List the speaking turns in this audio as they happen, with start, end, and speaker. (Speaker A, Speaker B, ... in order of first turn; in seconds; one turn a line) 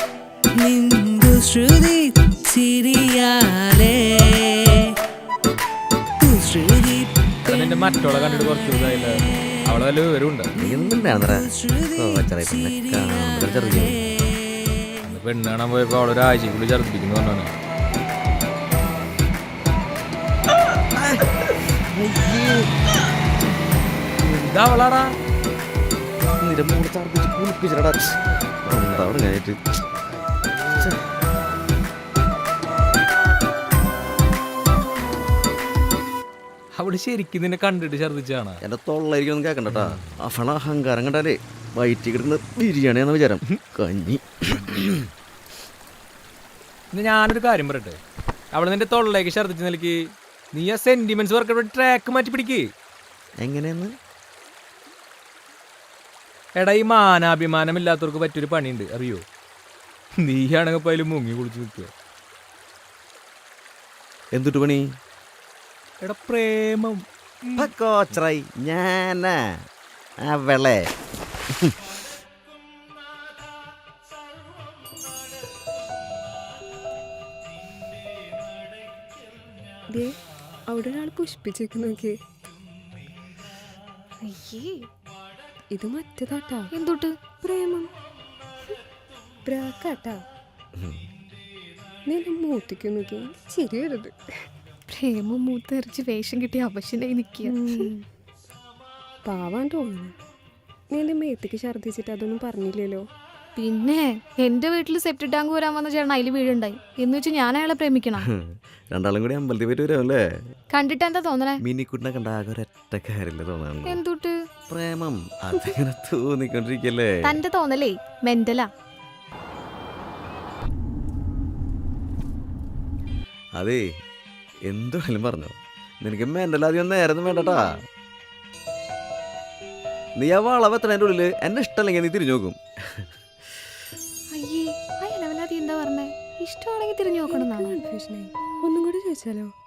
Speaker A: 0.6-4.8
Speaker A: 6.2-9.1
Speaker B: 7.5-10.5
Speaker C: 10.6-11.4
Speaker A: 10.6-14.7
Speaker C: 11.9-14.0
Speaker B: 15.0-17.5
Speaker C: 21.0-22.6
Speaker B: 24.4-25.1
Speaker C: 26.4-29.6
Speaker C: 30.7-31.0
Speaker B: 36.8-38.6
Speaker C: 38.6-45.0
Speaker B: 46.9-48.0
Speaker B: 48.5-50.0
Speaker B: 50.5-52.7
Speaker C: 53.4-53.9
Speaker B: 56.6-59.2
Speaker B: 60.2-61.9
Speaker C: 64.3-64.8
Speaker C: 67.5-69.4
Speaker C: 70.2-70.9
Speaker D: 80.7-82.1
Speaker E: 84.2-84.8
Speaker D: 85.7-86.7
Speaker E: 86.7-87.1
Speaker D: 87.4-87.9
Speaker D: 89.5-90.2
Speaker C: 90.8-91.0
Speaker D: 92.1-94.1
Speaker E: 94.9-97.9
Speaker D: 97.4-98.0
Speaker D: 99.2-100.1
Speaker D: 100.9-103.0
Speaker E: 103.6-108.2
Speaker C: 108.2-110.2
Speaker E: 110.7-111.6
Speaker C: 111.6-114.0
Speaker E: 113.8-114.3
Speaker C: 114.7-117.4
Speaker E: 117.2-118.7
Speaker C: 123.6-123.8
Speaker C: 124.7-127.8
Speaker C: 130.2-133.1
Speaker E: 134.3-137.8
Speaker D: 137.3-139.5